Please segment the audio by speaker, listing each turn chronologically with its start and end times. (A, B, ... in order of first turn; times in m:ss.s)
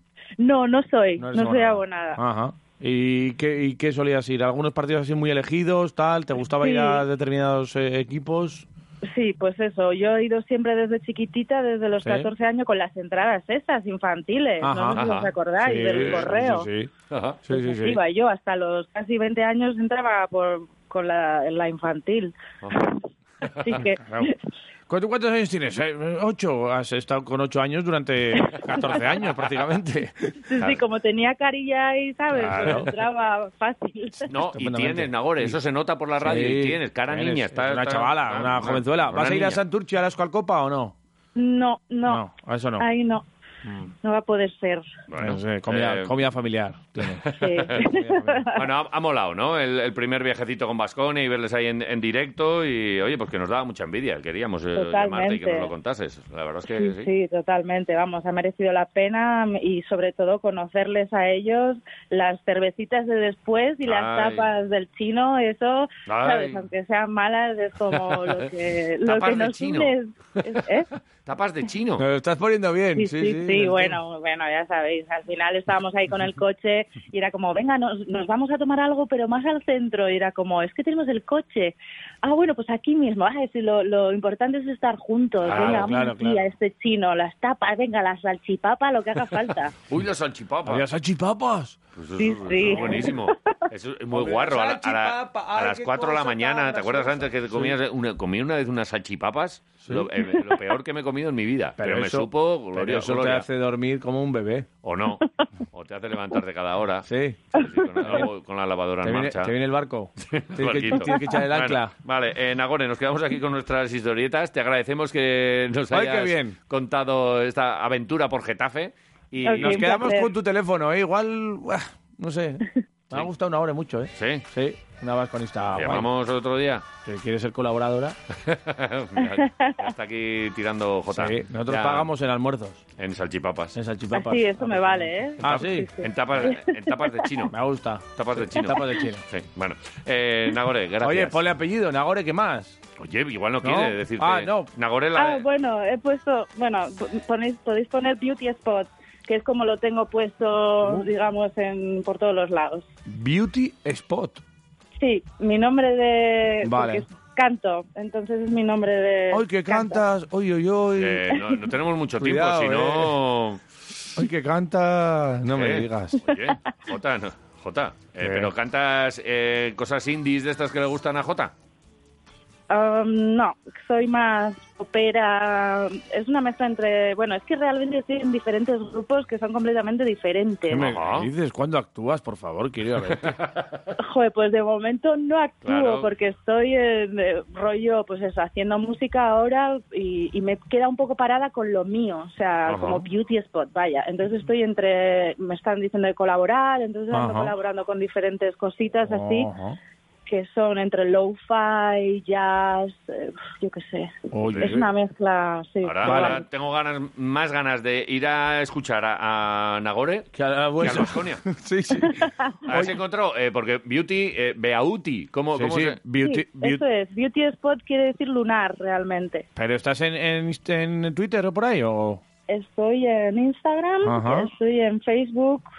0:00.4-0:02.2 A
0:01.2-0:08.7 B
0:06.6-0:07.0 A
0:09.0-0:16.7 A
0:12.0-0:12.3 B
0:14.6-0:15.0 B
0:15.0-0:15.3 C
0:15.6-0:16.9 B
0:15.9-0:16.3 C
0:17.1-0:17.4 C
0:17.4-0:18.0 B
0:17.5-0:23.0 A
0:23.4-0:23.8 C
0:23.6-0:24.4 A
0:23.8-0:24.3 B
0:24.9-0:30.7 B
0:28.4-0:29.2 A
0:30.5-0:34.3 A
0:32.3-0:32.9 B
0:34.3-0:39.6 C
0:34.4-0:35.6 B
0:36.2-0:40.9 B
0:41.4-0:42.2 A
0:42.1-0:42.9 B
0:42.8-0:43.2 A
0:43.6-0:43.9 B
0:44.0-0:44.9 A
0:45.1-0:46.1 C
0:45.2-0:47.2 B
0:47.0-0:47.8 C
0:47.4-0:48.6 A
0:47.8-0:48.5 B
0:48.5-0:57.1 C
0:54.7-0:55.7 A
0:56.8-1:10.9 A
1:03.8-1:04.5 C
1:06.1-1:06.6 C
1:08.0-1:08.4 C
1:09.0-1:10.0 C
1:11.2-1:12.0 C
1:12.0-1:14.0 B
1:13.0-1:29.7 A
1:25.4-1:25.9 C
1:25.5-1:26.5 B
1:29.9-1:30.9 C
1:30.7-1:31.8 B
1:32.0-1:43.5 C
1:32.2-1:33.6 A
1:32.6-1:33.1 B
1:34.1-1:37.8 B
1:41.8-1:44.7 B
1:44.8-1:49.5 C
1:47.1-1:47.5 B
1:48.0-1:48.3 B
1:49.0-1:51.9 B
1:50.2-2:00.1 C
1:51.0-1:51.3 A
1:55.9-1:56.6 B
1:59.4-2:00.3 A
1:59.6-2:06.1 B
2:04.2-2:04.5 C
2:05.8-2:06.8 C
2:07.0-2:08.2 B
2:08.4-2:12.1 C
2:09.2-2:09.9 A
2:11.1-2:12.8 B
2:13.0-2:13.8 C
2:13.7-2:15.9 B
2:14.1-2:17.2 A
2:15.4-2:17.6 C
2:17.5-2:19.2 B
2:18.2-2:21.4 C
2:18.6-2:19.0 A
2:21.0-2:22.8 B
2:23.0-2:25.4 C
2:23.6-2:24.7 B
2:25.2-2:32.9 A
2:33.1-2:34.4 B
2:35.0-2:40.0 A
2:36.6-2:37.1 B
2:39.3-2:41.5 B
2:41.0-2:43.6 C
2:42.2-2:43.2 B
2:44.2-2:46.2 B
2:45.5-2:51.5 C
2:48.2-2:48.5 B
2:52.7-3:00.9 A
3:00.7-3:03.3 B
3:00.7-3:01.3 C
3:03.2-3:03.7 C
3:04.0-3:19.5 A
3:05.6-3:06.1 C
3:12.7-3:13.1 C
3:17.1-3:17.5 B
3:19.0-3:19.8 B
3:20.3-3:26.4 A
3:24.3-3:24.9 B
3:24.5-3:24.8 C
3:25.8-3:30.3 C
3:26.0-3:26.4 B
3:30.3-3:32.9 B
3:30.8-3:31.4 C
3:32.0-3:32.5 A
3:32.6-3:36.0 C
3:35.5-3:36.8 B
3:36.2-3:39.4 A
3:39.6-3:42.2 B
3:42.5-3:45.7 A
3:44.0-3:44.5 B